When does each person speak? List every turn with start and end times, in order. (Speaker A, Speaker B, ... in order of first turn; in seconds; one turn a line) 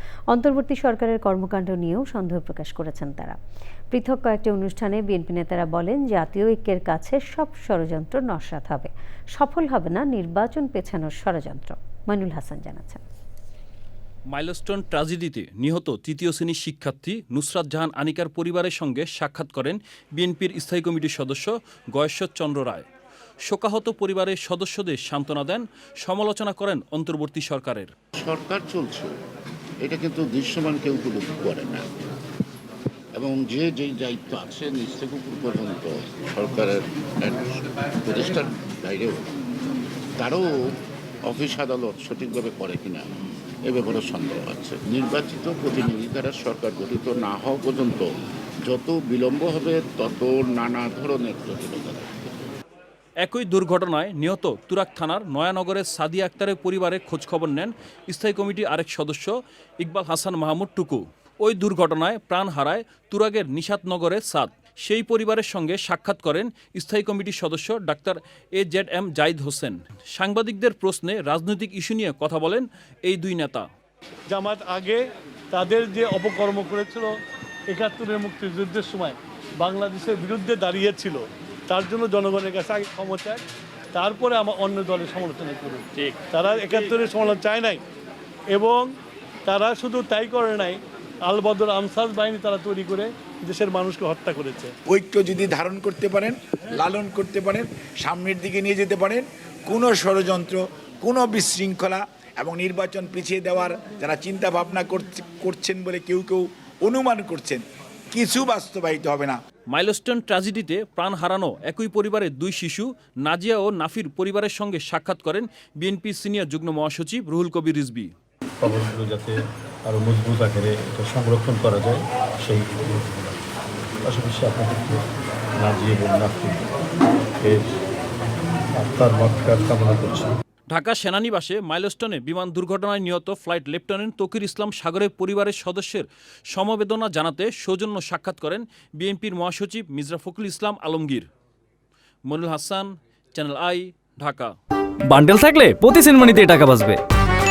Speaker A: 0.3-3.4
Speaker A: 3.9-13.0
Speaker B: 14.3-22.9
Speaker B: 23.5-27.9
Speaker C: 28.2-29.1
Speaker C: 29.8-31.9
Speaker C: 33.1-39.2
Speaker C: 40.2-40.7
Speaker C: 41.2-48.1
Speaker C: 48.6-52.3
Speaker B: 53.2-73.7
Speaker D: 74.3-75.0
Speaker D: 75.5-77.1
Speaker D: 77.7-83.4
Speaker D: 83.9-87.8
Speaker D: 88.5-88.9
Speaker D: 89.5-94.7
Speaker E: 94.9-109.4
Speaker B: 109.7-118.1
Speaker F: 118.6-119.3
Speaker F: 119.8-123.5
Speaker F: 124.0-125.1
Speaker F: 125.6-126.6
Speaker F: 127.4-127.7
Speaker F: 128.8-130.3
Speaker B: 130.7-141.3
Speaker B: 142.3-144.5
Speaker G: 145.1-147.0